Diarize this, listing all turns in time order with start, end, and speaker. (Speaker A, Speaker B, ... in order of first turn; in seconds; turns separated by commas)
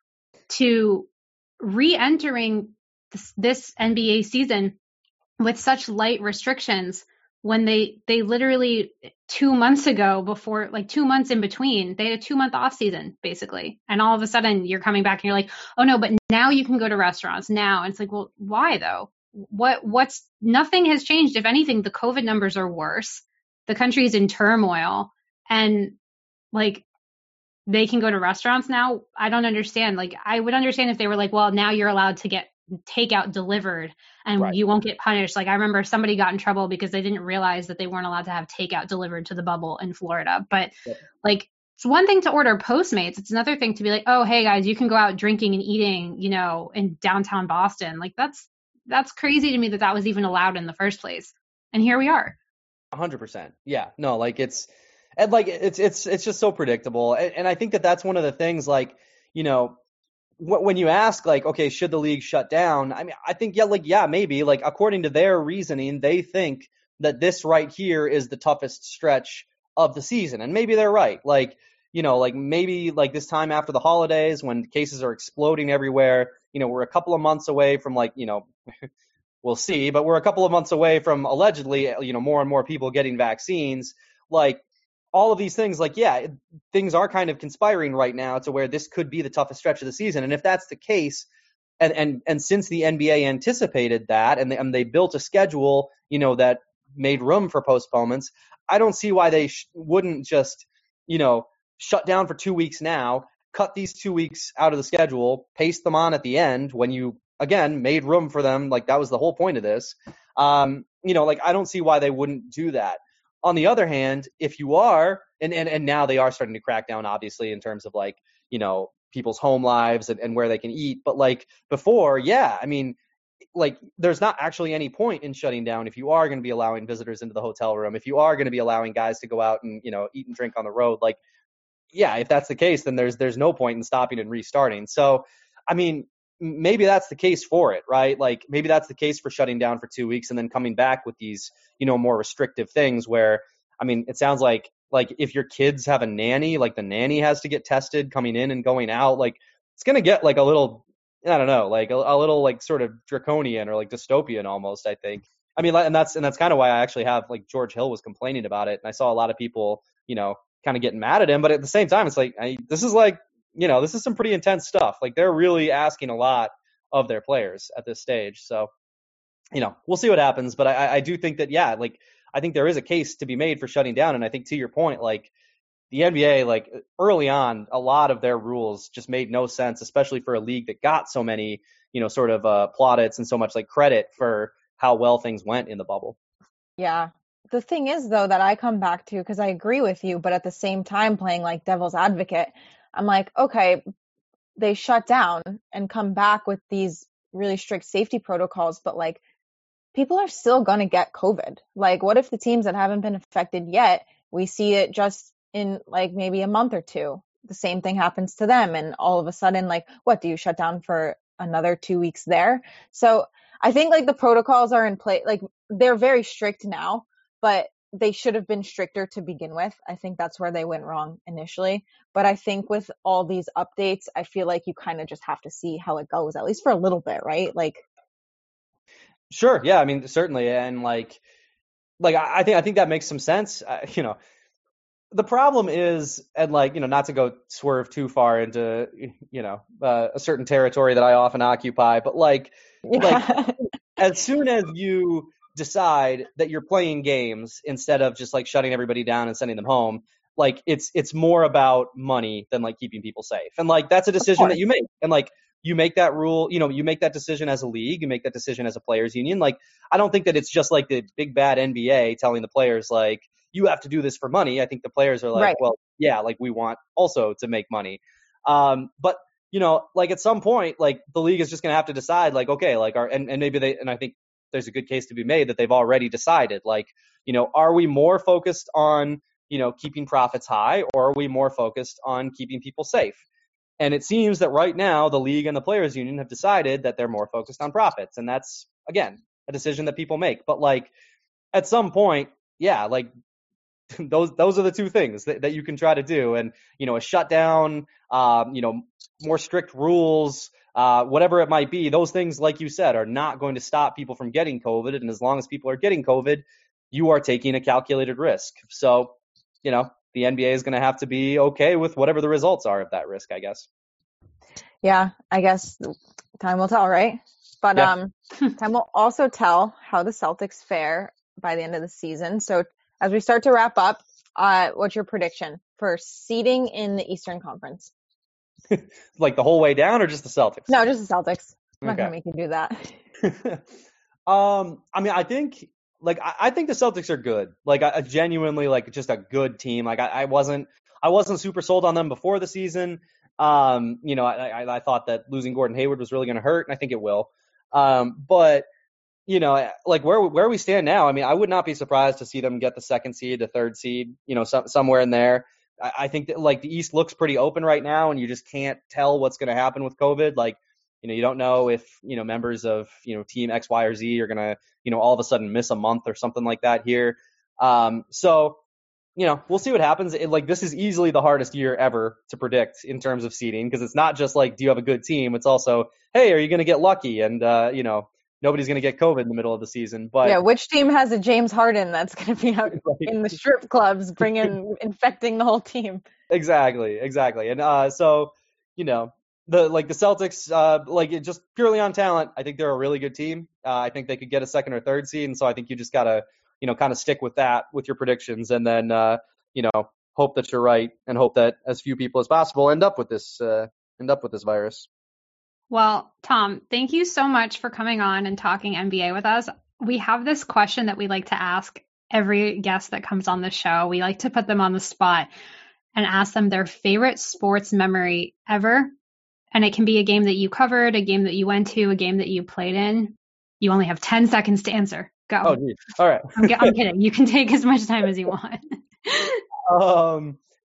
Speaker A: 0.5-1.1, Speaker A: 1.6-4.8, Speaker A: 5.4-25.9, Speaker A: 26.5-26.8, Speaker A: 27.7-40.7, Speaker A: 41.2-52.3, Speaker B: 52.9-59.8, Speaker B: 60.4-78.9, Speaker B: 79.4-84.6, Speaker B: 85.1-91.2, Speaker B: 91.8-123.0, Speaker B: 123.5-131.2, Speaker B: 131.9-168.7, Speaker B: 169.5-175.3, Speaker B: 175.9-186.2, Speaker C: 186.8-193.8, Speaker C: 194.6-199.2, Speaker C: 199.9-227.8, Speaker B: 229.3-231.2, Speaker B: 232.0-234.2, Speaker B: 235.1-243.2, Speaker C: 242.8-243.6, Speaker B: 243.9-283.2, Speaker C: 265.3-265.6, Speaker B: 283.8-290.9, Speaker B: 291.5-293.1, Speaker B: 293.9-309.1, Speaker B: 309.6-313.7, Speaker C: 314.8-327.9, Speaker B: 328.7-330.7, Speaker C: 330.7-332.9, Speaker B: 331.8-332.1, Speaker B: 333.2-333.6, Speaker B: 334.3-348.7, Speaker B: 349.3-368.6, Speaker B: 369.2-380.4, Speaker C: 380.2-386.0, Speaker B: 382.7-383.1, Speaker B: 386.3-404.9, Speaker A: 405.7-415.3, Speaker A: 415.9-418.9, Speaker A: 419.5-425.6, Speaker B: 425.4-426.7, Speaker A: 426.4-429.4, Speaker B: 429.7-430.4